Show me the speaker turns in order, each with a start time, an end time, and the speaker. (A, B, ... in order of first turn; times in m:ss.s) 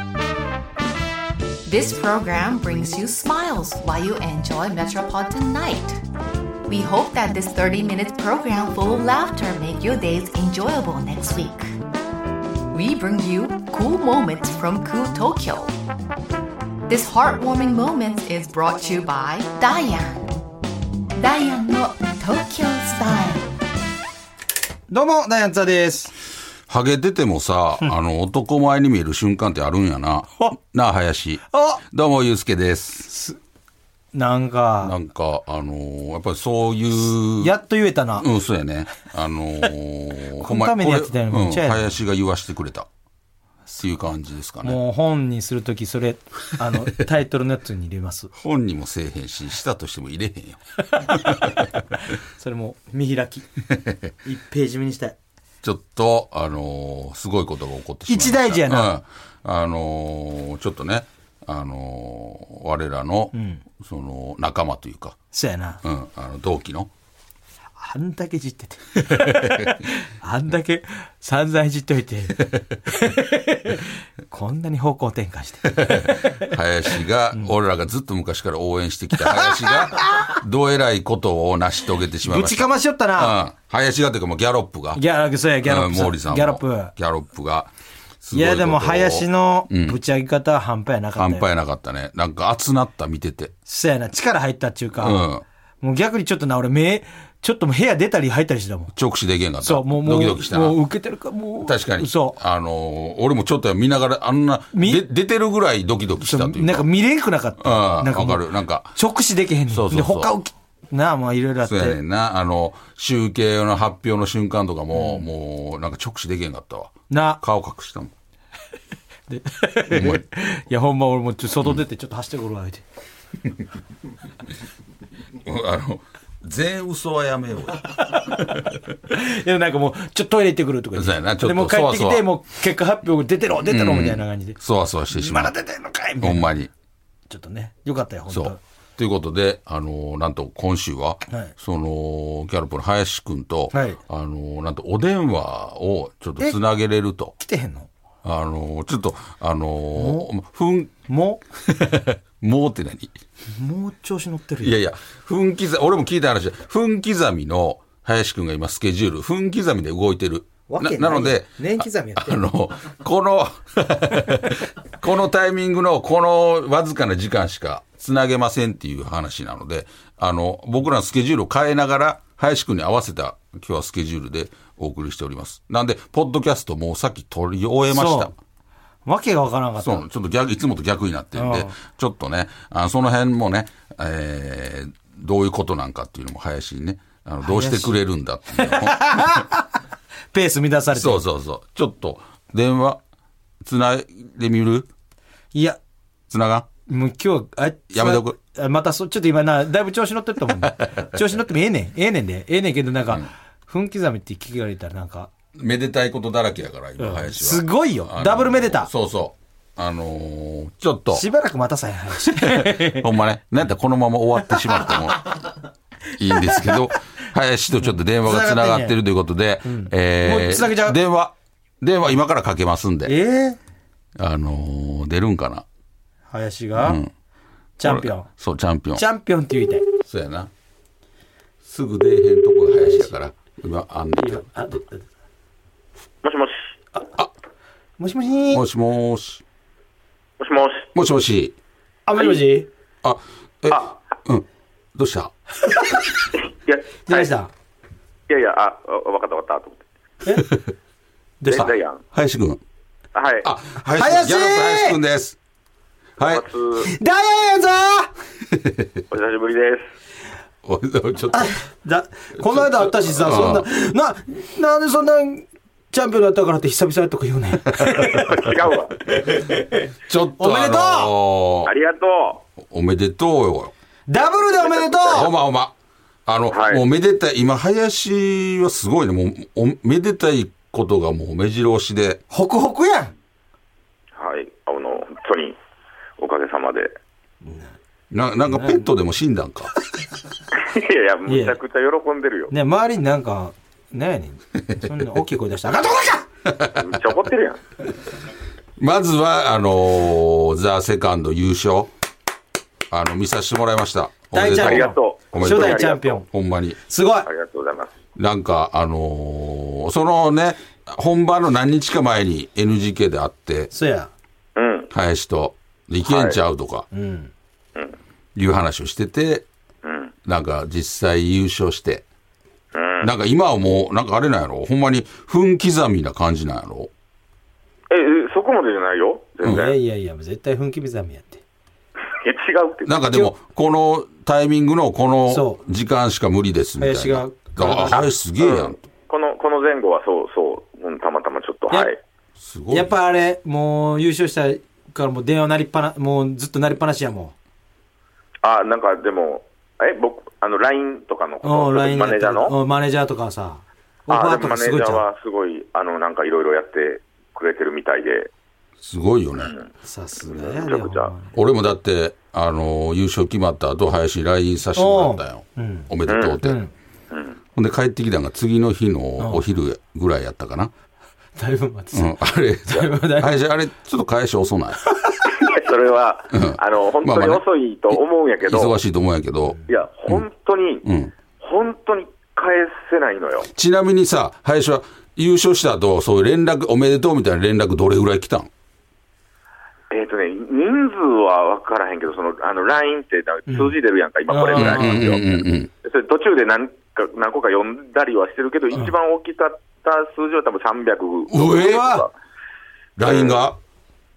0:01.6-0:06.0 A
0:06.7-0:11.7 A
0:12.7-0:15.7 A
0:16.9-0:20.3 A
0:21.2-0:23.5 A
0:24.9-0:26.1 B
0:26.7-0:33.1 C
0:31.5-0:31.8 B
0:33.1-0:33.4 B
0:34.1-0:34.9 B
0:34.8-0:37.5 C
0:37.4-0:38.2 B
0:38.1-0:42.9 C
0:40.4-0:42.0 B
0:43.8-0:44.8 C
0:44.6-0:48.3 B
0:48.4-0:51.6 C
0:52.1-0:53.5 B
0:53.7-0:54.1 C
0:54.2-0:55.2 B
0:55.6-1:05.2 C
0:58.1-0:58.9 B
1:03.3-1:03.6 B
1:05.3-1:05.8 B
1:05.8-1:06.9 C
1:07.8-1:16.6 B
1:09.1-1:09.8 C
1:15.7-1:25.0 C
1:19.2-1:20.4 B
1:22.2-1:23.4 B
1:24.9-1:26.9 B
1:25.6-1:30.0 C
1:28.3-1:31.4 B
1:31.2-1:33.5 C
1:33.7-1:35.2 B
1:35.0-1:35.4 C
1:35.8-1:38.9 B
1:38.9-1:40.8 C
1:39.6-1:42.4 B
1:41.6-1:46.8 C
1:44.7-1:45.0 B
1:46.2-1:48.4 B
1:47.6-1:49.0 C
1:48.9-1:52.0 B
1:49.7-1:50.3 C
1:51.6-1:58.1 C
1:54.9-1:55.2 B
1:57.1-1:57.4 B
1:59.3-2:02.8 B
1:59.9-2:00.2 C
2:05.4-2:08.7 C
2:07.8-2:14.6 B
2:11.0-2:12.2 C
2:13.6-2:15.6 C
2:15.1-2:16.5 B
2:16.2-2:16.7 C
2:17.3-2:18.6 B
2:18.3-2:27.3 C
2:23.7-2:24.0 B
2:27.4-2:27.9 B
2:28.2-2:30.9 C
2:29.9-2:30.3 B
2:31.0-2:31.4 B
2:31.7-2:33.1 C
2:33.5-2:34.8 B
2:34.6-2:58.3 C
2:40.7-2:42.4 B
2:57.9-2:58.3 B
2:59.0-3:00.0 B
2:59.8-3:09.4 C
3:01.3-3:01.7 B
3:07.4-3:08.0 B
3:08.5-3:09.7 B
3:10.3-3:11.2 B
3:10.9-3:13.0 C
3:13.6-3:14.9 C
3:15.5-3:15.8 B
3:16.3-3:16.7 C
3:16.9-3:25.3 B
3:17.9-3:18.4 C
3:20.6-3:21.1 C
3:25.5-3:31.2 C
3:27.0-3:28.9 B
3:31.1-3:33.1 B
3:32.2-3:35.4 C
3:34.6-3:35.3 B
3:36.2-3:43.1 C
3:36.2-3:36.9 B
3:38.2-3:38.9 B
3:39.6-3:41.0 B
3:43.0-3:43.6 B
3:44.2-3:45.6 C
3:46.3-3:47.0 B
3:46.8-3:47.1 C
3:47.8-3:48.3 B
3:47.8-3:49.0 C
3:48.9-3:49.9 B
3:50.0-3:50.5 C
3:51.6-3:54.6 C
3:52.8-3:53.1 B
3:54.2-3:55.1 B
3:56.2-3:56.7 D
3:58.0-3:58.6 B
3:58.5-3:59.4 C
4:00.4-4:00.9 D
4:00.9-4:01.6 C
4:02.0-4:02.7 B
4:03.0-4:05.3 C
4:03.7-4:04.0 D
4:06.3-4:07.3 D
4:07.1-4:07.5 B
4:08.3-4:09.8 D
4:10.4-4:10.7 C
4:11.4-4:11.7 B
4:11.4-4:12.0 D
4:11.5-4:12.6 C
4:13.1-4:13.5 D
4:13.4-4:15.4 C
4:13.8-4:15.0 B
4:16.2-4:16.4 C
4:16.2-4:16.9 D
4:16.8-4:18.1 B
4:18.5-4:19.0 C
4:19.1-4:19.9 D
4:20.6-4:21.5 C
4:21.3-4:28.6 B
4:22.4-4:23.6 C
4:28.0-4:29.0 D
4:30.1-4:31.7 C
4:30.4-4:31.1 B
4:31.6-4:32.4 D
4:32.6-4:33.7 C
4:34.1-4:35.3 B
4:34.4-4:35.3 D
4:35.1-4:35.7 C
4:36.2-4:42.2 C
4:36.5-4:36.8 D
4:42.3-4:43.1 B
4:44.2-4:45.6 D
4:46.2-4:46.9 D
4:47.4-4:47.7 B
4:48.1-4:49.7 C
4:48.5-4:48.9 B
4:50.5-4:52.5 D
4:51.3-4:51.6 B
4:52.5-4:56.2 B
4:56.4-4:57.1 C
4:56.8-4:57.6 D
4:58.8-5:01.9 C
5:02.9-5:06.8 C
5:04.3-5:06.2 B
5:04.4-5:06.2 D
5:06.9-5:07.3 B
5:07.2-5:07.9 D
5:08.2-5:13.7 C
5:13.7-5:14.1 B
5:14.6-5:14.9 D
5:14.9-5:16.9 C
5:16.0-5:16.4 D
5:16.9-5:17.3 B
5:18.4-5:19.4 C
5:19.8-5:20.1 D
5:20.2-5:22.0 C
5:22.7-5:23.1 D
5:23.0-5:26.9 C
5:27.9-5:29.8 D
5:29.4-5:29.7 C
5:29.4-5:31.4 B
5:32.1-5:33.0 D
5:32.8-5:38.8 C
5:35.3-5:35.6 B
5:36.8-5:38.1 B
5:38.4-5:42.0 D
5:42.4-5:42.9 C
5:42.7-5:47.3 B
5:48.4-5:52.5 D
5:51.4-5:55.0 B
5:54.1-5:58.3 D
5:58.8-5:59.6 C
5:59.4-5:59.7 D
5:59.8-6:01.3 B
6:00.2-6:01.1 D
6:01.3-6:06.6 C
6:04.8-6:05.9 B
6:06.1-6:06.4 D
6:06.4-6:06.7 B
6:07.1-6:07.4 D
6:07.5-6:10.7 C
6:09.2-6:09.4 B
6:11.4-6:13.4 B
6:11.9-6:14.8 C
6:15.2-6:18.8 D
6:16.3-6:20.2 C
6:19.7-6:20.8 D
6:20.8-6:21.1 C
6:21.4-6:23.5 D
6:23.5-6:28.5 C
6:29.9-6:42.1 D
6:33.5-6:33.8 B
6:34.3-6:35.0 B
6:34.6-6:35.7 C
6:41.3-6:41.8 C
6:41.5-6:42.1 B
6:43.0-6:43.6 C
6:43.0-6:43.4 D